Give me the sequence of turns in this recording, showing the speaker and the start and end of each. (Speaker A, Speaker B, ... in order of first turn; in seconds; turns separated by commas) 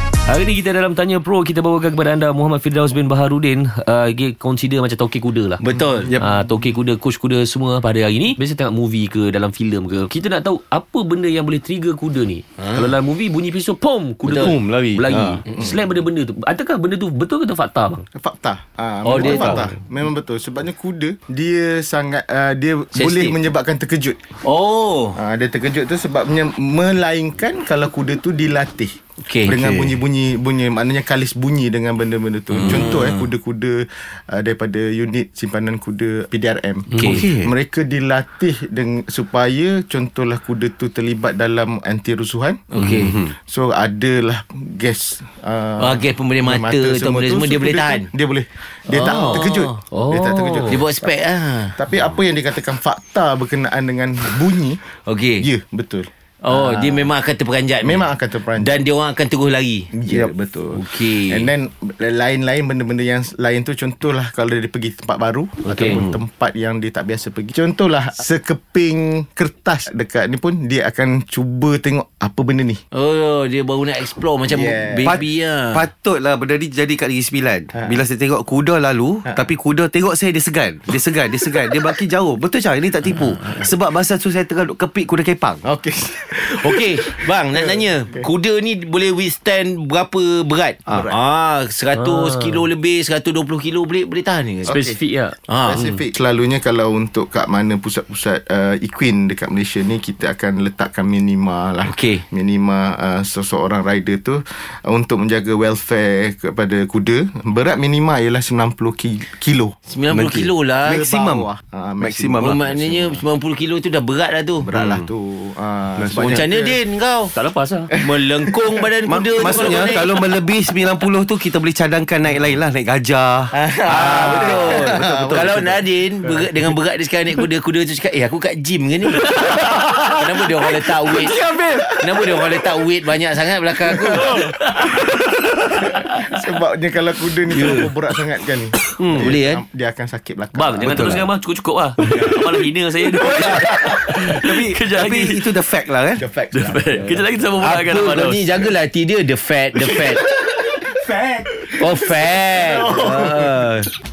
Speaker A: 0.2-5.6, Speaker B: 5.6-6.2, Speaker A: 6.2-18.1, Speaker B: 12.6-12.9, Speaker B: 14.2-14.6, Speaker C: 14.3-15.4, Speaker D: 18.1-24.2, Speaker B: 19.0-19.7, Speaker C: 19.2-19.6, Speaker B: 22.9-23.4, Speaker B: 24.4-25.2, Speaker D: 25.1-42.6, Speaker B: 29.2-30.0, Speaker B: 32.5-33.3, Speaker B: 36.9-37.3, Speaker C: 37.0-37.5, Speaker B: 42.7-43.3, Speaker D: 43.3-51.1, Speaker B: 45.8-48.1, Speaker B: 48.9-49.8, Speaker A: 49.9-50.7, Speaker B: 50.7-52.0, Speaker D: 51.8-54.8, Speaker B: 55.0-55.5, Speaker D: 55.4-57.1, Speaker B: 56.4-61.5, Speaker D: 57.8-58.8, Speaker D: 59.9-72.8, Speaker B: 65.6-66.2, Speaker B: 72.9-75.8, Speaker D: 74.5-75.1, Speaker C: 75.0-85.6, Speaker D: 85.6-88.3, Speaker B: 86.5-94.8, Speaker D: 90.9-91.1, Speaker A: 91.9-92.7, Speaker D: 94.6-95.0, Speaker A: 94.7-96.0, Speaker B: 95.5-95.8, Speaker D: 95.6-109.8, Speaker B: 101.9-102.2, Speaker B: 109.9-111.0, Speaker C: 110.1-111.5, Speaker D: 110.9-113.0, Speaker C: 112.0-113.2, Speaker B: 112.4-114.7, Speaker D: 114.6-116.8, Speaker C: 114.8-115.1, Speaker C: 116.0-116.4, Speaker B: 116.2-117.3, Speaker A: 117.3-117.9, Speaker D: 117.9-118.5, Speaker B: 118.0-120.1, Speaker C: 119.1-126.5, Speaker B: 123.5-131.4, Speaker D: 123.9-125.6, Speaker C: 131.4-131.9, Speaker B: 132.0-134.3, Speaker A: 134.2-135.1, Speaker D: 135.9-141.2, Speaker B: 137.5-137.9, Speaker B: 139.0-139.6, Speaker A: 140.5-145.4, Speaker C: 140.8-141.2, Speaker C: 142.0-142.3, Speaker C: 143.2-146.2, Speaker D: 146.2-147.2, Speaker A: 146.5-148.4, Speaker B: 147.6-150.2, Speaker B: 151.8-153.9, Speaker D: 152.8-153.2